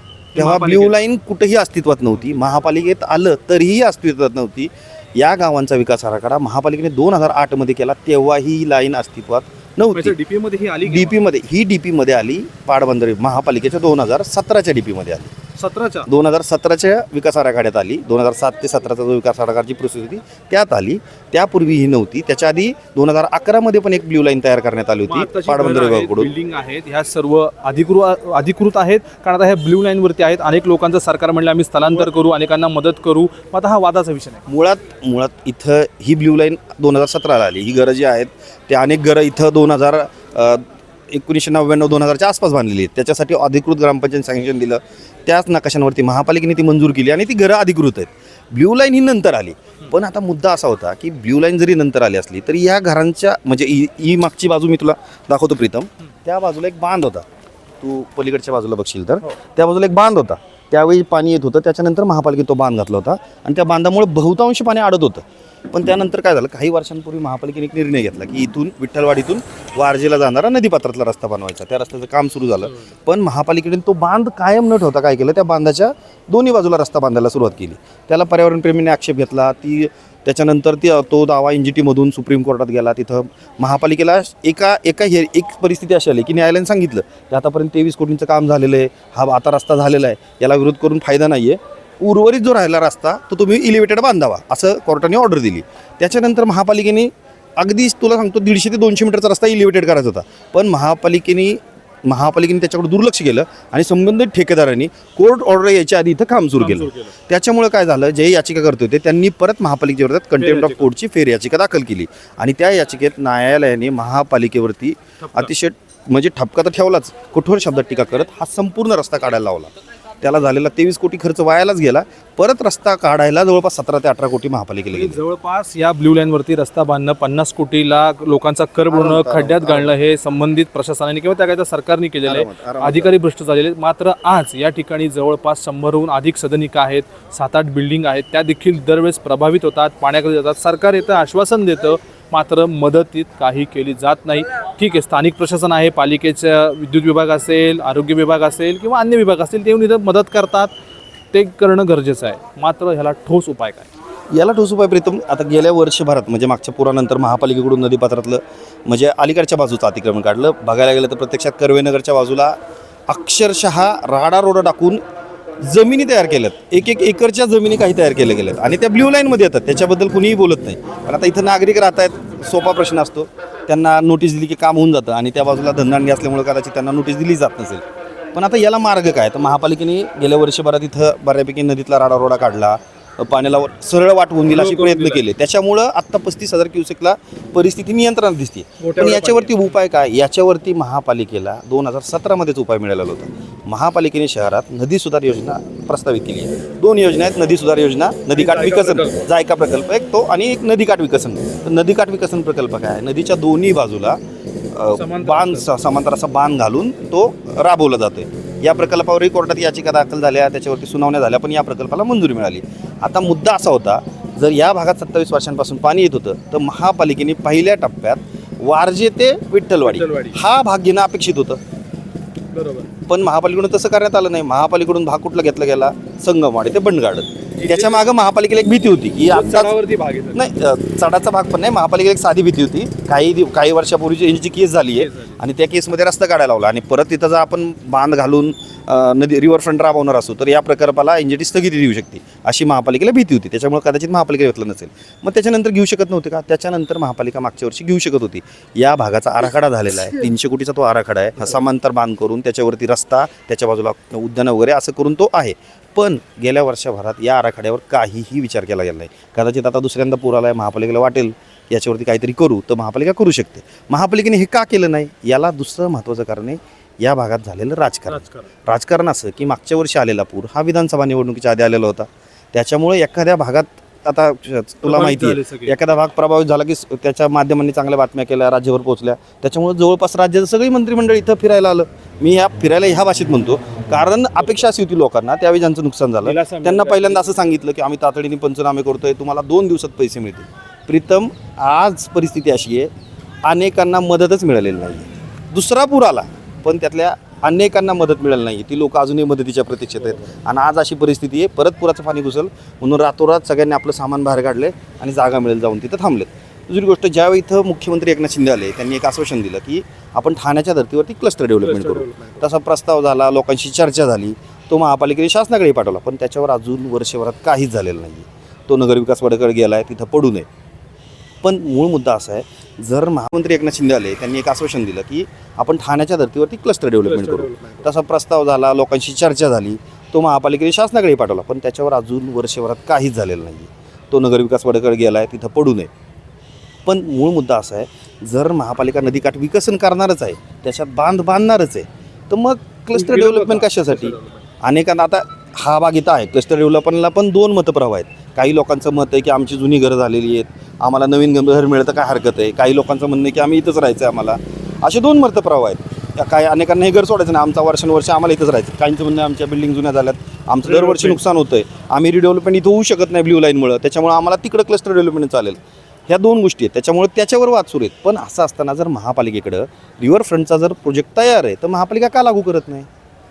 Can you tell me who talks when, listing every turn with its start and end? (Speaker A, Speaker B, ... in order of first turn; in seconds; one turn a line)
Speaker A: 0.3-1.0
Speaker B: 0.4-10.2
Speaker A: 9.9-11.2
Speaker B: 10.8-15.3
Speaker A: 15.6-16.1
Speaker B: 16.1-26.3
Speaker A: 25.1-34.4
Speaker B: 34.5-57.2
Speaker B: 57.8-125.2
Speaker A: 106.6-107.1
Speaker A: 110.4-110.9
Speaker A: 115.2-115.5
Speaker A: 124.9-150.7
Speaker B: 128.9-129.9
Speaker B: 132.2-133.2
Speaker A: 151.3-153.9
Speaker B: 154.3-162.6
Speaker B: 163.1-165.0
Speaker B: 165.6-204.2
Speaker A: 184.5-185.2
Speaker A: 188.8-189.7
Speaker A: 198.4-199.2
Speaker B: 204.7-221.6
Speaker A: 204.9-205.7
Speaker A: 219.8-220.4
Speaker A: 222.5-222.9
Speaker B: 223.1-229.7
Speaker A: 227.6-228.1
Speaker A: 229.3-230.4
Speaker B: 230.3-292.9
Speaker A: 235.0-235.4
Speaker A: 268.1-268.5
Speaker A: 274.8-275.8
Speaker A: 284.4-284.7
Speaker A: 286.2-287.4
Speaker B: 293.5-320.5
Speaker A: 311.6-312.4
Speaker B: 321.4-335.9
Speaker A: 327.0-327.9
Speaker B: 336.9-372.9
Speaker A: 342.9-344.4
Speaker A: 360.6-361.2